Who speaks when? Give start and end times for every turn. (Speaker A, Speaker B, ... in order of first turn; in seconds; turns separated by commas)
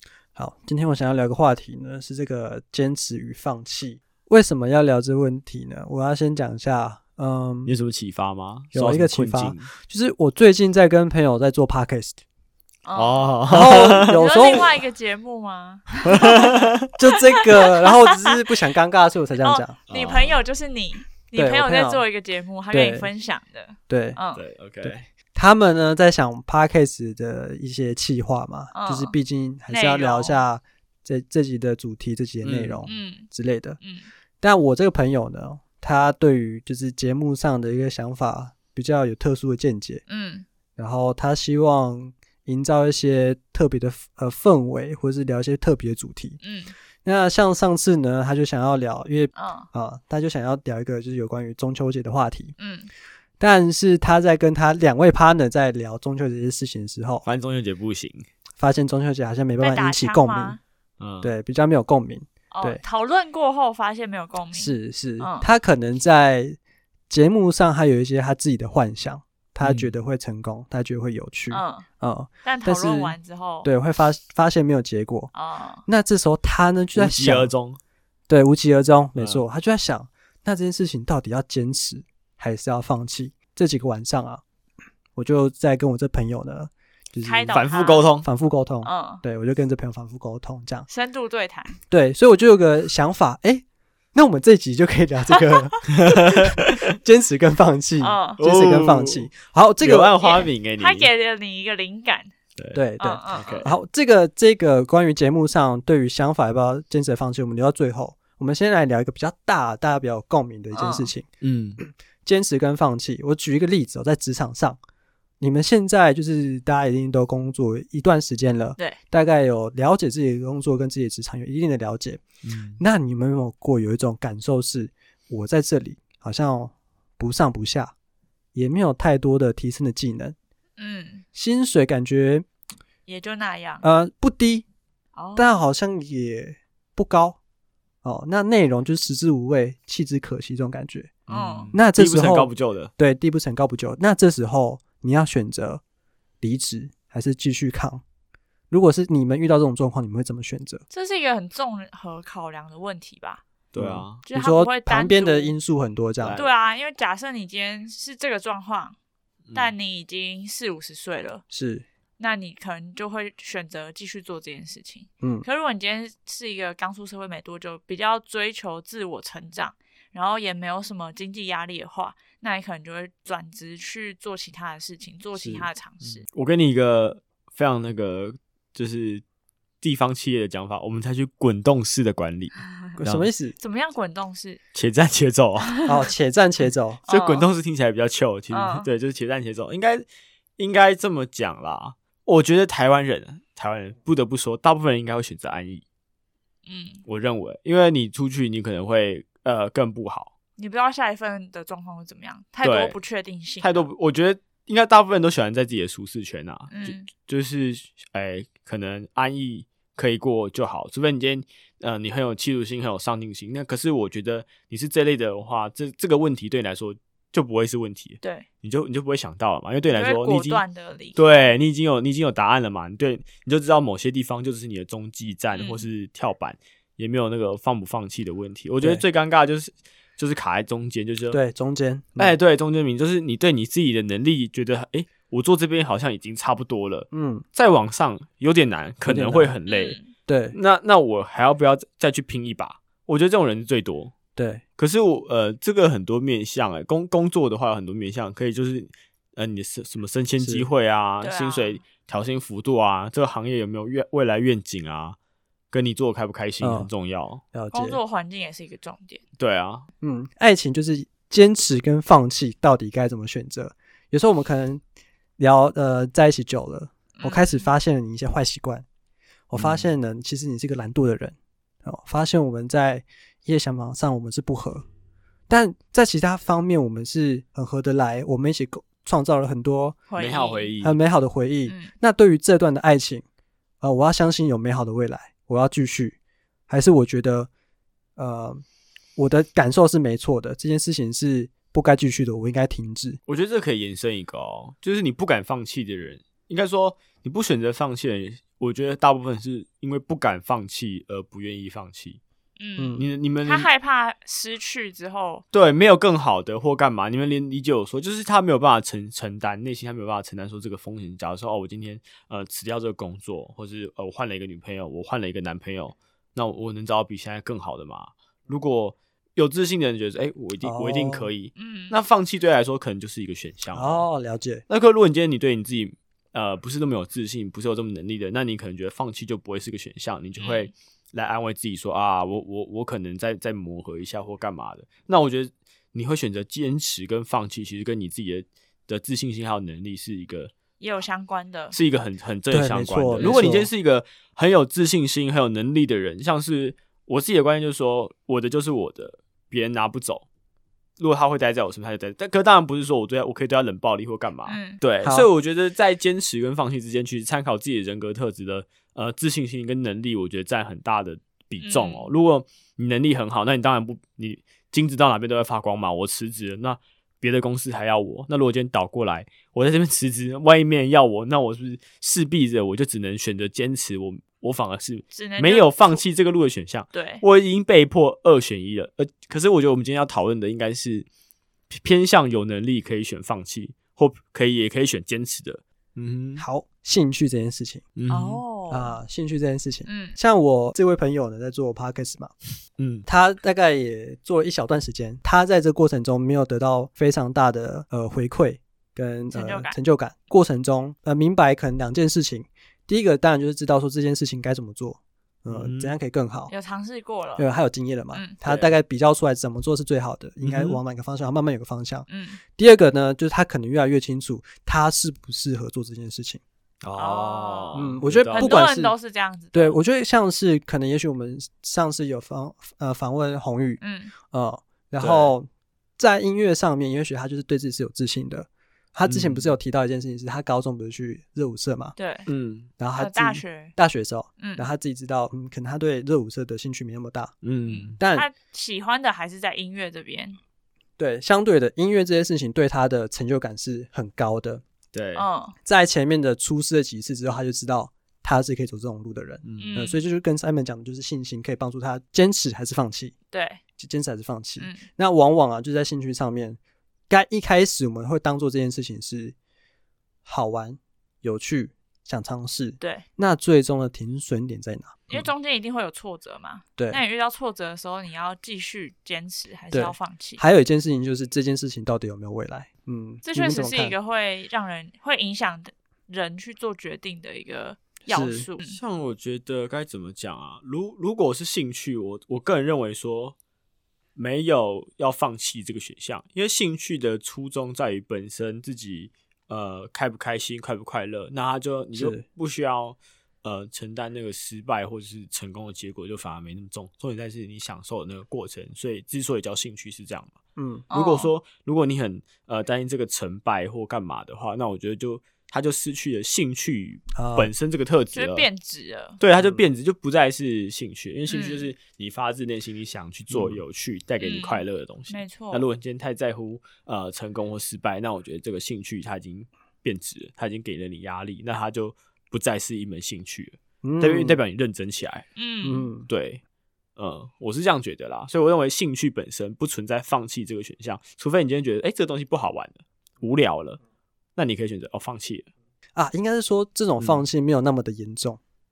Speaker A: 0.4-7.7, Speaker B: 7.7-9.7, Speaker A: 8.7-12.2, Speaker C: 12.8-13.4, Speaker B: 12.9-14.6, Speaker A: 13.5-14.8, Speaker C: 14.0-16.5, Speaker B: 16.1-16.7, Speaker A: 17.0-19.8, Speaker C: 19.4-24.4, Speaker B: 19.9-20.4, Speaker A: 21.3-22.1, Speaker A: 22.7-23.1, Speaker A: 23.9-24.2, Speaker B: 24.4-25.1, Speaker A: 24.8-33.8, Speaker C: 28.7-29.1, Speaker C: 29.7-30.4, Speaker B: 32.4-32.9, Speaker C: 32.9-33.3, Speaker C: 33.8-34.1, Speaker A: 34.4-40.0, Speaker C: 40.1-40.5, Speaker A: 40.8-46.4, Speaker C: 46.4-46.8, Speaker A: 47.0-52.5, Speaker C: 49.3-49.7, Speaker C: 52.6-52.9, Speaker A: 53.4-57.3, Speaker B: 57.2-58.3, Speaker A: 58.6-60.6, Speaker C: 59.6-60.6, Speaker B: 61.0-61.3, Speaker A: 61.2-62.8, Speaker C: 62.5-65.5, Speaker A: 64.5-66.6, Speaker A: 67.1-75.3, Speaker B: 69.6-69.9, Speaker C: 71.5-71.9, Speaker C: 72.4-73.7, Speaker C: 75.3-75.8, Speaker A: 75.9-77.5, Speaker B: 77.0-77.8, Speaker A: 78.3-84.4, Speaker B: 79.2-79.4, Speaker A: 85.2-87.7, Speaker C: 87.2-88.1, Speaker B: 87.5-88.3, Speaker A: 88.2-90.9, Speaker C: 88.8-89.2, Speaker C: 90.9-91.8, Speaker A: 91.9-100.2, Speaker B: 96.0-96.8, Speaker C: 98.0-98.4, Speaker B: 98.4-101.1, Speaker C: 100.2-102.3, Speaker B: 102.6-103.7, Speaker A: 102.7-111.3, Speaker C: 103.0-103.7, Speaker C: 110.7-111.1, Speaker B: 111.4-111.8, Speaker A: 111.8-114.8, Speaker A: 115.4-122.2, Speaker B: 122.4-122.8, Speaker A: 122.8-127.9, Speaker A: 128.6-130.3, Speaker C: 130.8-131.2, Speaker A: 131.3-132.5, Speaker C: 133.1-133.8, Speaker A: 133.8-134.7, Speaker C: 135.2-135.6, Speaker A: 135.4-137.4, Speaker A: 138.0-145.8, Speaker B: 141.3-142.9, Speaker C: 141.3-141.7, Speaker A: 146.4-148.0, Speaker A: 148.7-150.8, Speaker C: 150.9-153.4, Speaker B: 153.7-154.2, Speaker A: 153.8-156.4, Speaker C: 154.3-155.6, Speaker B: 156.2-156.5, Speaker C: 156.3-159.0, Speaker B: 159.5-159.7, Speaker C: 159.5-161.4, Speaker A: 161.5-161.9, Speaker C: 162.2-176.2, Speaker A: 165.2-165.5, Speaker A: 175.3-175.7, Speaker B: 176.0-179.2, Speaker B: 179.8-183.3, Speaker A: 183.0-183.6, Speaker C: 183.6-184.6, Speaker B: 184.7-185.7, Speaker A: 185.9-187.0, Speaker C: 187.1-187.5, Speaker B: 187.1-190.1, Speaker C: 188.5-188.9, Speaker B: 190.6-195.8, Speaker C: 196.7-197.0, Speaker B: 197.1-200.3, Speaker C: 200.6-203.9, Speaker B: 202.6-203.0, Speaker B: 203.6-220.6, Speaker C: 206.7-207.1, Speaker C: 219.9-221.4, Speaker B: 221.2-231.4, Speaker C: 225.5-225.9, Speaker A: 231.3-232.4, Speaker B: 232.2-240.0, Speaker A: 237.1-237.4, Speaker A: 239.1-239.6, Speaker C: 239.7-240.1, Speaker A: 240.3-240.6, Speaker B: 240.5-244.1, Speaker A: 244.4-244.6, Speaker B: 244.8-255.2, Speaker A: 250.4-250.7, Speaker C: 251.2-251.8, Speaker B: 255.7-257.4, Speaker A: 256.6-256.9, Speaker A: 257.5-258.0, Speaker C: 257.7-259.2, Speaker B: 259.4-259.9, Speaker A: 260.0-264.8, Speaker A: 265.4-268.9, Speaker C: 267.1-267.7, Speaker A: 269.5-274.9, Speaker B: 269.6-269.9, Speaker A: 275.5-280.1, Speaker C: 280.1-280.7, Speaker B: 280.1-281.0, Speaker A: 280.8-283.2, Speaker C: 281.7-281.9, Speaker A: 283.8-286.2, Speaker A: 286.7-287.5, Speaker A: 288.2-288.6, Speaker A: 289.2-293.2, Speaker B: 293.3-302.2, Speaker C: 302.6-305.4, Speaker A: 302.8-303.1, Speaker B: 303.0-303.7, Speaker B: 305.5-324.1, Speaker A: 320.6-321.3, Speaker C: 321.6-322.0, Speaker A: 323.7-324.6, Speaker B: 324.7-340.5, Speaker C: 330.4-330.7, Speaker C: 340.8-341.8, Speaker B: 341.7-350.3, Speaker A: 342.5-343.7, Speaker C: 343.2-343.5, Speaker B: 351.0-381.1, Speaker C: 354.5-354.8, Speaker A: 355.0-355.3, Speaker C: 361.6-362.1, Speaker C: 375.1-376.0, Speaker C: 376.9-377.2, Speaker B: 381.7-386.4, Speaker A: 386.4-387.9, Speaker B: 388.0-388.4, Speaker C: 388.1-389.0, Speaker A: 388.7-392.3, Speaker C: 389.9-390.2, Speaker B: 392.8-393.1, Speaker A: 393.1-406.5, Speaker C: 399.3-399.8, Speaker B: 405.5-405.9, Speaker C: 406.5-407.5, Speaker A: 407.4-412.1, Speaker B: 408.4-408.8, Speaker B: 410.4-410.8, Speaker C: 412.1-412.4, Speaker A: 412.6-416.4, Speaker B: 416.8-418.6, Speaker C: 416.9-419.8, Speaker A: 417.7-418.9, Speaker A: 419.5-432.0, Speaker C: 423.8-424.1, Speaker B: 425.0-425.4, Speaker B: 429.1-429.6, Speaker C: 432.0-432.3, Speaker B: 432.3-432.7, Speaker A: 432.8-437.3, Speaker C: 432.9-433.7, Speaker C: 434.4-434.7, Speaker B: 437.4-438.0, Speaker C: 437.6-440.4, Speaker A: 438.0-438.3, Speaker A: 441.0-444.6, Speaker B: 444.9-445.3, Speaker C: 445.2-445.6, Speaker A: 445.7-453.1, Speaker B: 449.4-449.8, Speaker C: 449.6-450.0, Speaker C: 453.3-453.6, Speaker A: 453.8-456.6, Speaker C: 454.6-454.9, Speaker A: 457.1-459.4, Speaker A: 460.2-465.3, Speaker C: 462.8-463.1, Speaker C: 465.1-470.4, Speaker A: 466.8-467.0, Speaker A: 469.7-474.0, Speaker C: 473.2-478.8, Speaker A: 478.1-478.5, Speaker B: 478.6-483.4, Speaker B: 484.2-500.3, Speaker A: 491.9-492.2, Speaker A: 500.6-500.9, Speaker C: 500.9-501.3, Speaker B: 500.9-508.5, Speaker A: 507.2-507.5, Speaker C: 508.1-509.2, Speaker B: 509.2-525.3, Speaker A: 509.4-509.6, Speaker C: 511.3-511.7, Speaker A: 513.3-513.6, Speaker C: 514.2-515.7, Speaker A: 523.8-524.4, Speaker C: 525.4-525.9, Speaker A: 525.6-526.1, Speaker B: 526.1-526.4, Speaker B: 527.0-533.8, Speaker B: 534.4-535.5, Speaker A: 536.0-538.4, Speaker B: 537.0-537.2